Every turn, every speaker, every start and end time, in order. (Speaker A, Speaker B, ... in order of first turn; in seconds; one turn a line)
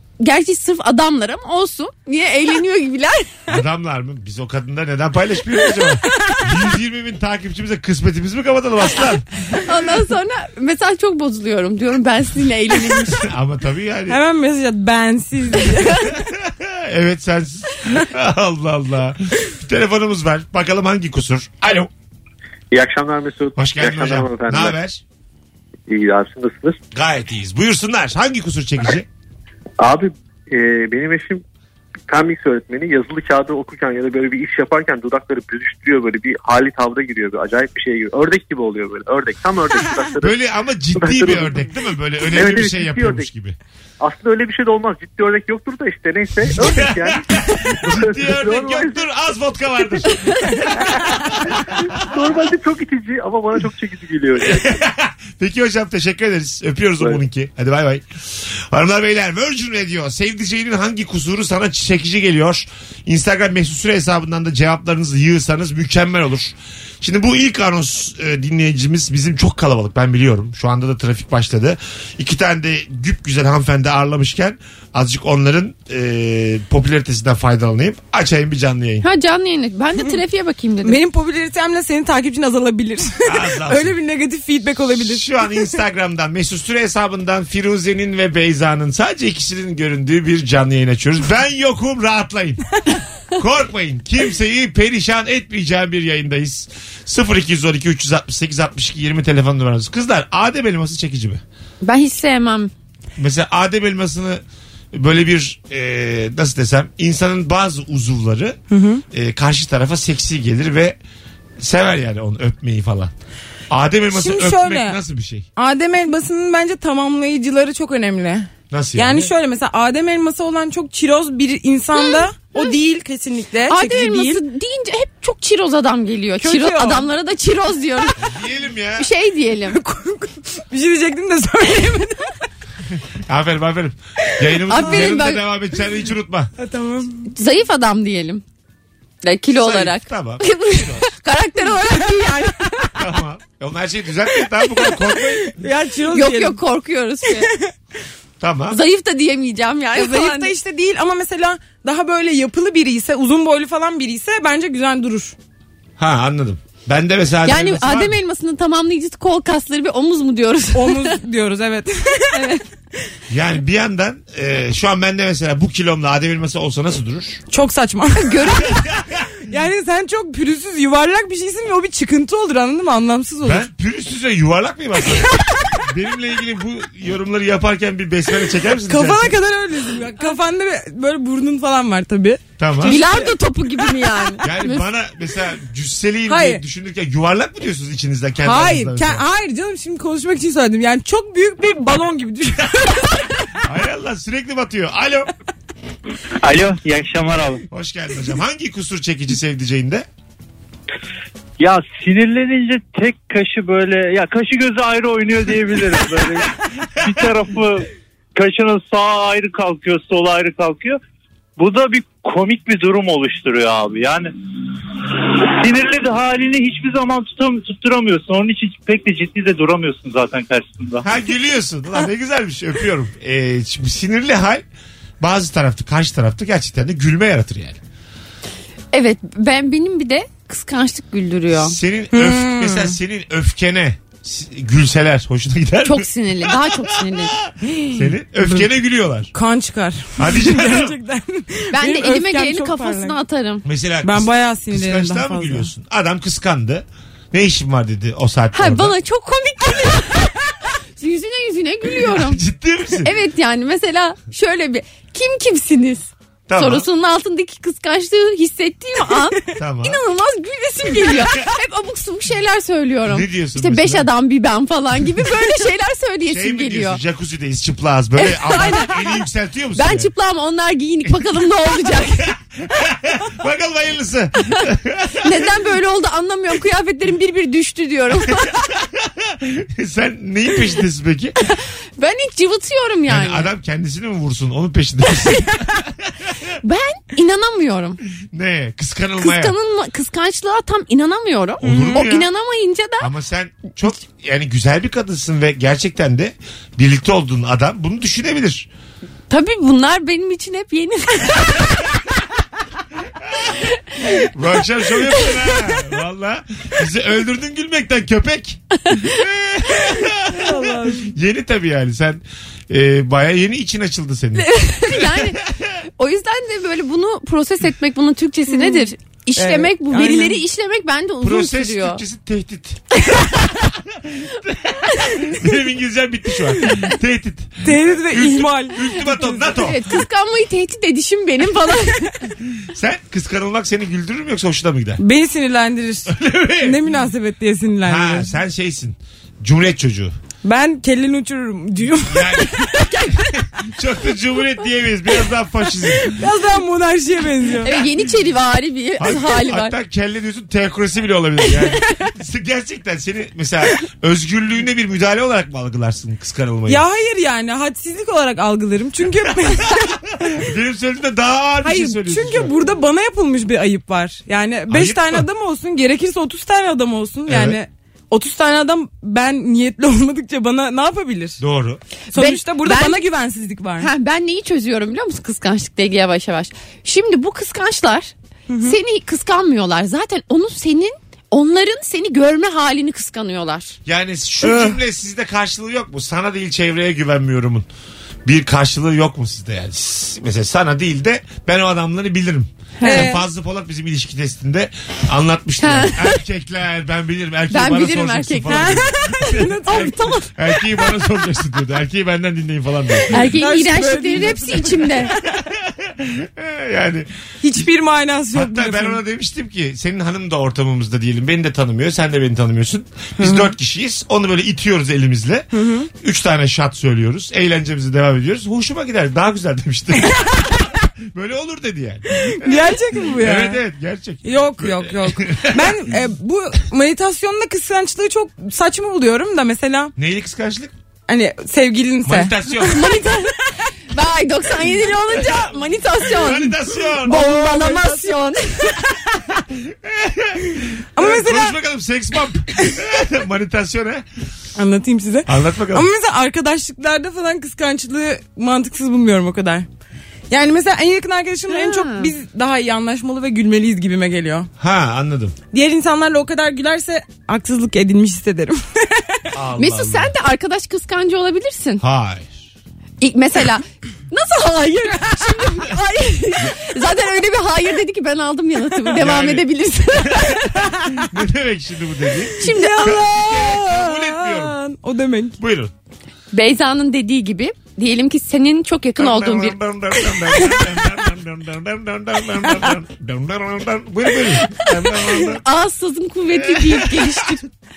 Speaker A: 0.2-3.4
Speaker B: 3.5-9.2
Speaker A: 9.5-13.3
Speaker B: 13.0-14.2
Speaker C: 14.1-16.2
Speaker B: 16.3-21.9
Speaker D: 22.7-24.8
Speaker B: 23.6-25.0
Speaker D: 25.9-26.8
Speaker B: 26.9-29.1
Speaker D: 29.8-31.4
Speaker D: 32.1-40.3
Speaker B: 40.2-43.6
Speaker D: 41.0-41.6
Speaker D: 42.2-43.3
Speaker D: 44.0-49.0
Speaker B: 46.5-52.1
Speaker D: 50.8-54.8
Speaker B: 54.4-79.1
Speaker A: 79.0-81.0
Speaker C: 80.8-85.3
Speaker B: 83.2-84.0
Speaker B: 85.0-92.7
Speaker B: 93.3-101.4
Speaker A: 101.8-102.7
Speaker B: 103.2-108.6
Speaker C: 108.7-109.0
Speaker B: 109.1-111.0
Speaker B: 111.6-113.1
Speaker B: 113.7-115.5
Speaker C: 114.1-115.0
Speaker C: 115.6-124.4
Speaker B: 118.7-119.3
Speaker A: 122.0-122.8
Speaker A: 123.7-128.2
Speaker C: 126.4-127.1
Speaker B: 128.2-129.1
Speaker A: 129.0-129.8
Speaker C: 129.7-132.3
Speaker B: 133.3-136.5
Speaker A: 134.7-135.4
Speaker C: 134.9-135.1
Speaker C: 136.6-137.3
Speaker A: 137.3-138.4
Speaker A: 139.2-142.9
Speaker B: 139.6-141.1
Speaker B: 143.0-145.6
Speaker C: 145.4-146.6
Speaker A: 146.1-147.5
Speaker C: 147.4-147.7
Speaker B: 148.4-148.8
Speaker A: 148.7-150.5
Speaker C: 149.9-155.3
Speaker B: 156.0-158.2
Speaker A: 157.4-161.2
Speaker C: 160.7-162.5
Speaker A: 162.3-162.6
Speaker B: 163.3-167.4
Speaker C: 167.5-168.8
Speaker A: 168.2-168.8
Speaker B: 168.7-169.3
Speaker C: 169.4-173.7
Speaker B: 173.4-179.4
Speaker C: 178.9-184.4
Speaker B: 182.6-183.0
Speaker A: 182.8-184.8
Speaker B: 184.4-189.2
Speaker C: 186.3-186.6
Speaker C: 188.4-193.5
Speaker B: 193.7-195.3
Speaker E: 196.4-197.6
Speaker B: 197.7-200.1
Speaker E: 201.6-211.0
Speaker E: 211.6-214.3
Speaker E: 215.2-221.1
Speaker B: 221.0-224.7
Speaker B: 225.2-227.8
Speaker A: 228.9-231.8
Speaker B: 231.5-239.3
Speaker C: 232.1-233.0
Speaker A: 235.8-237.4
Speaker C: 239.3-243.2
Speaker B: 240.2-240.9
Speaker A: 241.7-243.7
Speaker B: 243.7-248.9
Speaker C: 244.0-245.7
Speaker A: 248.5-252.4
Speaker B: 252.0-253.1
Speaker A: 253.0-267.0
Speaker B: 256.5-256.9
Speaker B: 259.6-260.0
Speaker B: 263.1-264.1
Speaker B: 266.3-270.1
Speaker A: 268.2-269.1
Speaker A: 269.8-272.3
Speaker B: 272.2-275.4
Speaker A: 275.2-278.6
Speaker B: 278.3-281.4
Speaker A: 281.5-283.5
Speaker B: 283.1-286.4
Speaker A: 286.6-288.0
Speaker B: 288.3-289.6
Speaker A: 289.2-293.1
Speaker B: 291.6-292.3
Speaker C: 291.6-292.0
Speaker B: 293.0-298.7
Speaker A: 299.3-301.9
Speaker B: 303.3-303.5
Speaker B: 304.1-315.7
Speaker A: 308.9-309.2
Speaker C: 310.2-311.1
Speaker A: 314.4-315.4
Speaker A: 316.0-322.0
Speaker C: 318.5-320.4
Speaker B: 321.2-329.9
Speaker A: 324.9-325.2
Speaker C: 327.6-329.1
Speaker A: 329.5-332.2
Speaker B: 332.5-335.0
Speaker C: 335.0-338.3
Speaker B: 336.1-336.8
Speaker B: 337.9-340.1
Speaker C: 340.4-342.9
Speaker B: 342.1-346.2
Speaker C: 345.8-347.7
Speaker A: 347.6-349.8
Speaker B: 349.0-356.8
Speaker C: 356.7-360.0
Speaker B: 359.3-362.6
Speaker C: 361.6-371.4
Speaker B: 364.7-365.3
Speaker B: 367.3-367.6
Speaker B: 371.4-371.8
Speaker A: 372.1-373.0
Speaker C: 372.1-373.9
Speaker A: 373.8-383.8
Speaker C: 378.5-378.8
Speaker B: 383.9-387.7
Speaker B: 388.2-403.3
Speaker A: 392.8-393.1
Speaker C: 392.8-393.2
Speaker A: 395.6-396.1
Speaker A: 397.5-398.8
Speaker C: 398.5-400.3
Speaker A: 403.1-405.1
Speaker C: 403.1-405.4
Speaker B: 405.4-407.1
Speaker C: 407.4-409.0
Speaker B: 408.3-415.5
Speaker C: 415.5-415.9
Speaker B: 416.0-425.9
Speaker C: 422.1-423.6
Speaker C: 424.2-429.9
Speaker B: 430.0-430.7
Speaker C: 431.1-433.1
Speaker B: 432.1-432.8
Speaker A: 432.6-433.4
Speaker A: 433.9-438.9
Speaker B: 436.1-437.3
Speaker C: 437.1-438.1
Speaker B: 439.3-444.1
Speaker C: 441.0-441.6
Speaker C: 444.6-449.7
Speaker B: 445.3-445.9
Speaker C: 450.3-454.5
Speaker A: 451.5-452.1
Speaker B: 454.6-455.4
Speaker C: 455.5-459.3
Speaker B: 459.3-460.1
Speaker A: 459.6-461.8
Speaker B: 461.8-462.3
Speaker A: 463.0-470.7
Speaker B: 469.0-474.6
Speaker A: 472.4-473.0
Speaker C: 472.4-475.4
Speaker B: 475.4-475.7
Speaker A: 476.3-479.6
Speaker B: 479.0-485.4
Speaker A: 485.4-487.4
Speaker B: 486.3-487.4